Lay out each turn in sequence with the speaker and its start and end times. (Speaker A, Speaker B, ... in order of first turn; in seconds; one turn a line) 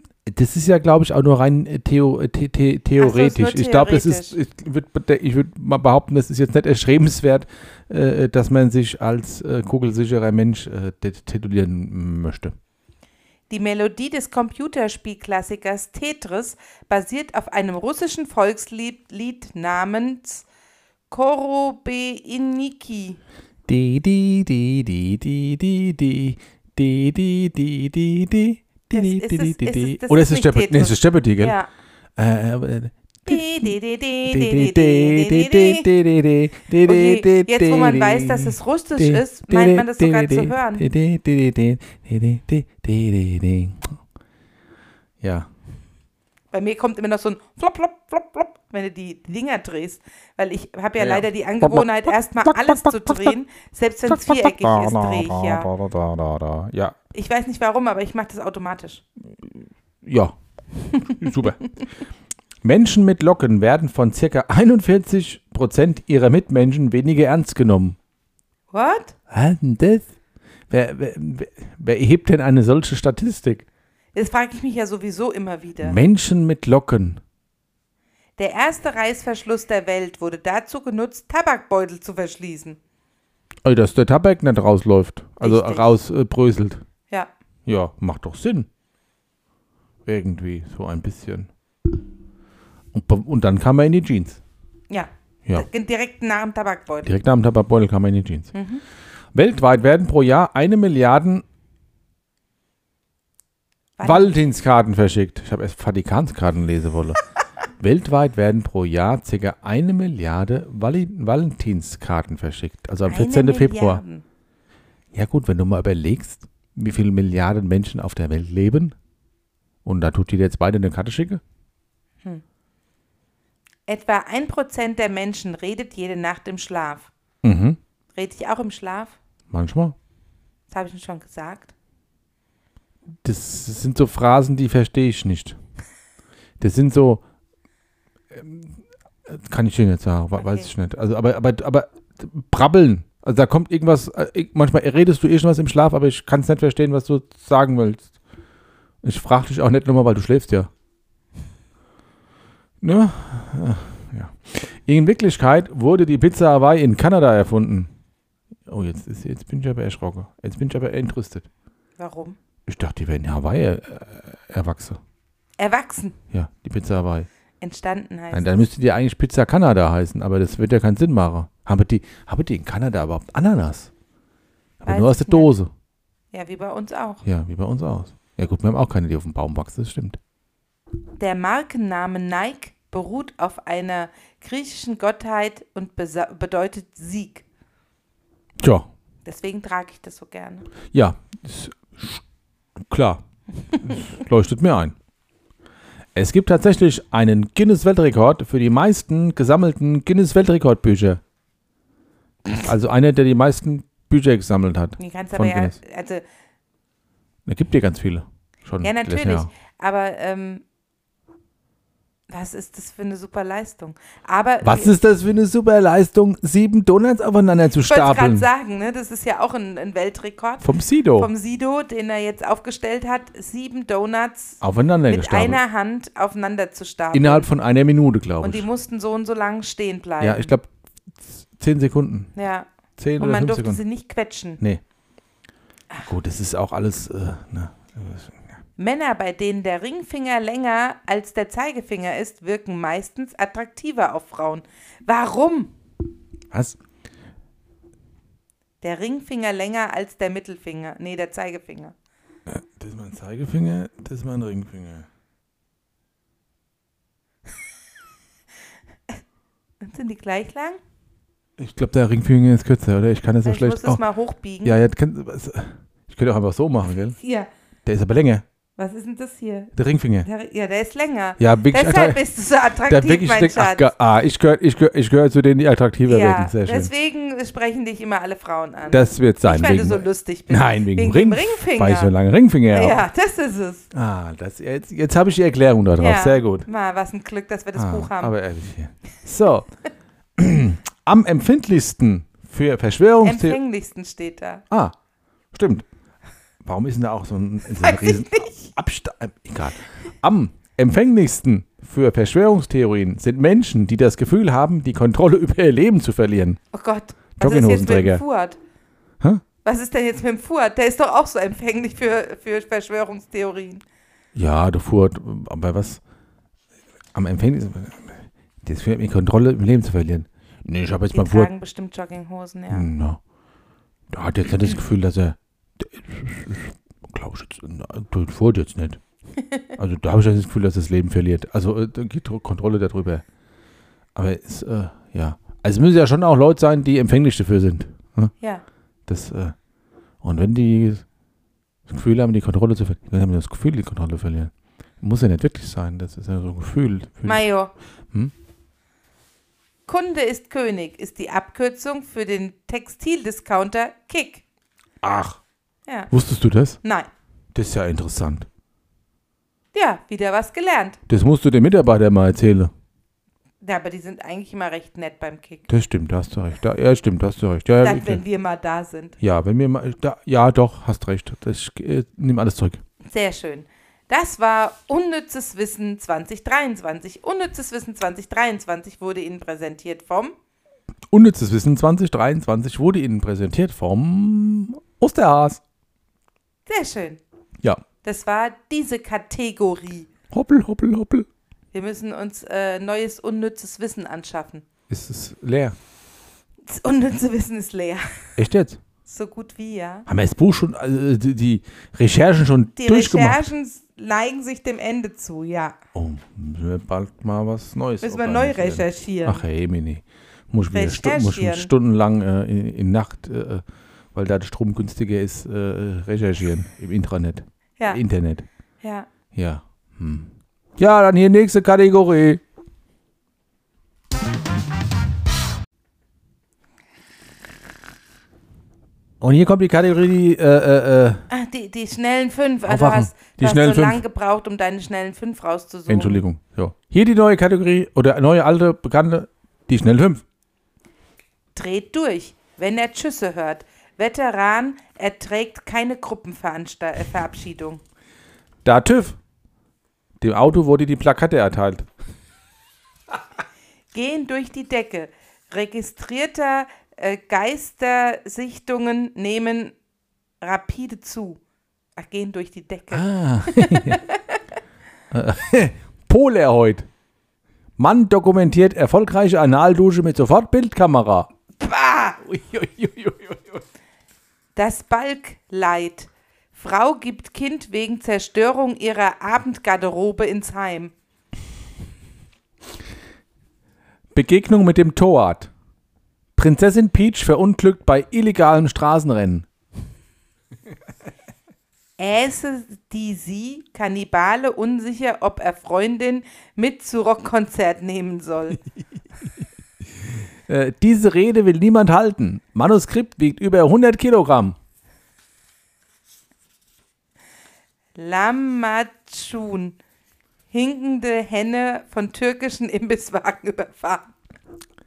Speaker A: 0.3-12.6
Speaker B: 3.0-4.4
Speaker B: 13.5-20.4
Speaker B: 21.1-23.2
Speaker A: 23.7-31.6
Speaker B: 28.9-31.7
Speaker A: 32.2-33.7
Speaker B: 33.3-35.9
Speaker A: 34.3-44.0
Speaker B: 36.8-40.9
Speaker A: 45.2-45.5
Speaker B: 46.5-55.7
Speaker A: 51.0-53.3
Speaker A: 54.1-57.0
Speaker B: 57.1-59.0
Speaker A: 59.4-60.3
Speaker B: 60.9-61.4
Speaker A: 61.0-61.6
Speaker A: 62.6-68.0
Speaker B: 68.7-69.2
Speaker A: 69.3-70.1
Speaker A: 70.7-73.7
Speaker B: 74.2-76.0
Speaker A: 75.8-77.2
Speaker B: 78.4-82.8
Speaker A: 83.7-86.8
Speaker B: 85.4-85.9
Speaker A: 87.7-88.7
Speaker A: 90.0-91.5
Speaker A: 92.9-94.4
Speaker B: 94.9-97.1
Speaker A: 97.0-98.5
Speaker B: 98.5-98.8
Speaker A: 99.3-101.5
Speaker B: 104.0-104.4
Speaker A: 104.0-107.2
Speaker A: 107.8-114.0
Speaker B: 113.1-114.2
Speaker A: 115.1-119.0
Speaker A: 119.8-121.4
Speaker B: 123.9-127.1
Speaker A: 127.4-127.8
Speaker B: 128.2-129.2
Speaker A: 129.5-129.9
Speaker B: 130.7-131.7
Speaker A: 133.2-135.6
Speaker A: 136.6-137.2
Speaker A: 138.3-148.1
Speaker B: 140.4-140.7
Speaker A: 149.0-150.7
Speaker A: 152.8-157.9
Speaker A: 158.7-161.5
Speaker B: 162.0-162.4
Speaker A: 162.7-165.0
Speaker B: 165.6-166.2
Speaker A: 166.3-167.3
Speaker B: 167.6-168.7
Speaker A: 168.3-173.9
Speaker A: 174.8-175.7
Speaker B: 174.8-175.5
Speaker B: 176.3-177.2
Speaker A: 177.2-180.2
Speaker B: 181.2-187.4
Speaker A: 188.6-188.9
Speaker B: 189.3-190.7
Speaker A: 190.9-192.2
Speaker A: 192.8-193.2
Speaker A: 193.8-194.9
Speaker A: 196.2-201.2
Speaker A: 202.5-205.8
Speaker B: 205.0-206.2
Speaker A: 207.5-209.5
Speaker B: 208.8-210.6
Speaker B: 212.3-214.9
Speaker A: 214.6-218.5
Speaker B: 217.8-227.5
Speaker A: 220.6-221.3
Speaker A: 224.6-225.6
Speaker A: 227.1-228.7
Speaker B: 228.4-230.5
Speaker A: 230.2-230.7
Speaker A: 231.2-232.3
Speaker B: 232.3-234.6
Speaker A: 233.0-233.8
Speaker A: 236.1-238.5
Speaker B: 238.8-245.7
Speaker A: 246.5-246.8
Speaker B: 248.8-251.9
Speaker A: 252.5-255.1
Speaker B: 259.8-260.8
Speaker A: 261.6-264.0
Speaker B: 263.4-264.8
Speaker A: 264.6-267.2
Speaker B: 267.2-267.5
Speaker A: 267.9-268.4
Speaker B: 268.8-273.9
Speaker A: 269.8-270.3
Speaker A: 271.4-272.2
Speaker A: 272.9-276.9
Speaker B: 276.1-282.1
Speaker A: 278.9-283.1
Speaker B: 282.7-283.9
Speaker A: 283.9-286.7
Speaker B: 286.0-288.3
Speaker A: 287.8-289.7
Speaker A: 290.4-293.6
Speaker B: 293.2-294.6
Speaker A: 295.5-295.9
Speaker A: 296.6-306.6
Speaker B: 297.8-298.7
Speaker B: 306.7-308.6
Speaker A: 307.4-308.2
Speaker B: 309.6-313.8
Speaker A: 314.4-316.0
Speaker A: 317.1-321.5
Speaker B: 321.1-322.9
Speaker A: 322.7-323.2
Speaker A: 324.1-329.0
Speaker A: 329.8-333.2
Speaker A: 334.1-338.3
Speaker A: 339.1-339.6
Speaker A: 340.2-341.1
Speaker A: 341.9-347.4
Speaker B: 347.2-347.7
Speaker B: 349.9-354.4
Speaker A: 355.0-355.4
Speaker B: 355.9-356.1
Speaker A: 356.1-356.8
Speaker B: 356.8-357.1
Speaker A: 357.6-358.5
Speaker B: 359.7-361.0
Speaker A: 361.1-362.7
Speaker B: 363.6-365.7
Speaker A: 365.7-368.2
Speaker B: 367.8-369.2
Speaker A: 369.2-372.8
Speaker B: 373.1-380.3
Speaker A: 381.1-385.6
Speaker B: 386.7-387.2
Speaker B: 388.0-390.1
Speaker A: 390.3-391.3
Speaker B: 391.7-394.6
Speaker A: 394.9-395.8
Speaker B: 396.7-398.3
Speaker A: 398.4-398.8
Speaker B: 399.1-400.1
Speaker A: 400.1-403.4
Speaker B: 402.8-405.8
Speaker A: 405.9-418.5
Speaker B: 408.0-409.4
Speaker B: 410.7-411.7
Speaker B: 418.8-419.1
Speaker A: 419.3-422.4
Speaker A: 429.2-431.2
Speaker B: 431.3-436.2
Speaker A: 432.6-434.0
Speaker A: 435.9-440.2
Speaker B: 441.6-447.8
Speaker A: 448.6-449.2
Speaker A: 450.2-451.9
Speaker B: 453.9-459.8
Speaker B: 460.4-461.4
Speaker B: 462.0-464.4
Speaker A: 462.9-464.0
Speaker A: 465.1-466.9
Speaker A: 467.8-471.3
Speaker B: 471.6-472.2
Speaker A: 472.2-473.6
Speaker B: 474.6-480.9
Speaker A: 484.1-485.5
Speaker A: 486.4-489.5
Speaker B: 492.0-498.6
Speaker A: 500.5-504.6
Speaker B: 507.9-509.8
Speaker B: 510.5-514.1